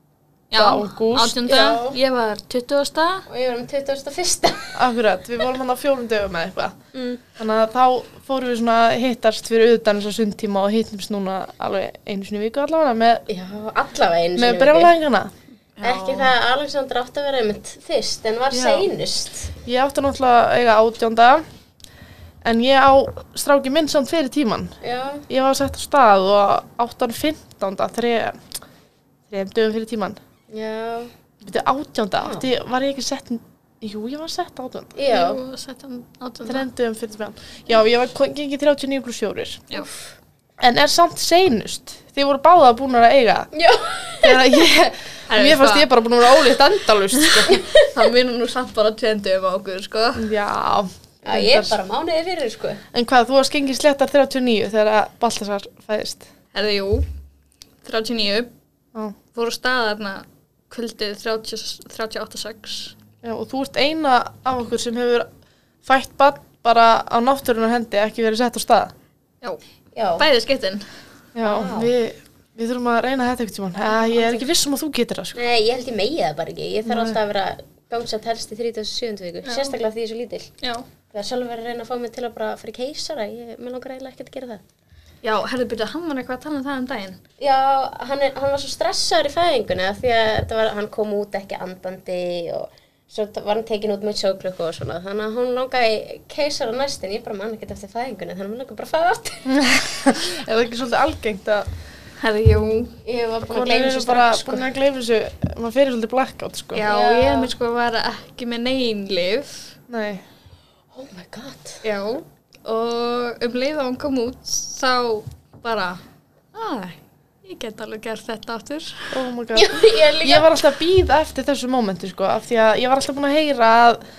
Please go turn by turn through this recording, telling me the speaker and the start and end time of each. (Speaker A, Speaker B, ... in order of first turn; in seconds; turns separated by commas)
Speaker A: 0.5-3.3, Speaker B: 0.6-1.4, Speaker C: 1.4-2.0, Speaker C: 3.3-4.8, Speaker B: 4.8-6.8, Speaker C: 6.9-7.2, Speaker B: 7.4-13.2, Speaker C: 13.3-14.9, Speaker B: 14.4-15.3, Speaker A: 15.8-16.3, Speaker C: 15.8-19.5, Speaker B: 18.5-18.9, Speaker B: 19.6-21.4, Speaker B: 22.4-24.8, Speaker C: 24.8-25.3, Speaker B: 25.3-28.4, Speaker B: 29.3-30.2, Speaker C: 30.5-31.1, Speaker B: 31.4-34.9, Speaker C: 32.2-32.5, Speaker C: 35.0-35.4, Speaker A: 35.0-36.7, Speaker B: 36.5-39.7, Speaker B: 40.6-43.5, Speaker C: 43.5-44.5, Speaker B: 44.2-47.6, Speaker A: 45.3-45.9, Speaker A: 47.2-50.3, Speaker C: 47.5-47.9, Speaker B: 50.1-51.8, Speaker C: 51.2-52.8, Speaker B: 52.9-56.3, Speaker A: 56.5-57.1, Speaker A: 57.8-58.5, Speaker A: 59.3-63.0, Speaker B: 63.2-65.3, Speaker B: 65.8-68.9, Speaker C: 70.0-70.2, Speaker A: 70.2-70.9, Speaker B: 71.3-75.4, Speaker C: 71.4-71.9, Speaker C: 75.3-80.5, Speaker B: 76.9-77.2, Speaker A: 79.5-79.8, Speaker A: 80.6-80.9, Speaker C: 81.1-84.6, Speaker A: 85.2-87.2, Speaker C: 87.4-99.5, Speaker B: 99.5-101.7, Speaker A: 102.2-102.9, Speaker C: 102.9-104.7, Speaker B: 103.5-106.9, Speaker A: 106.7-109.8, Speaker C: 106.9-107.5, Speaker B: 109.9-110.2, Speaker C: 110.9-111.8, Speaker A: 111.8-116.0, Speaker A: 116.5-119.2, Speaker B: 119.1-124.0, Speaker C: 119.5-120.6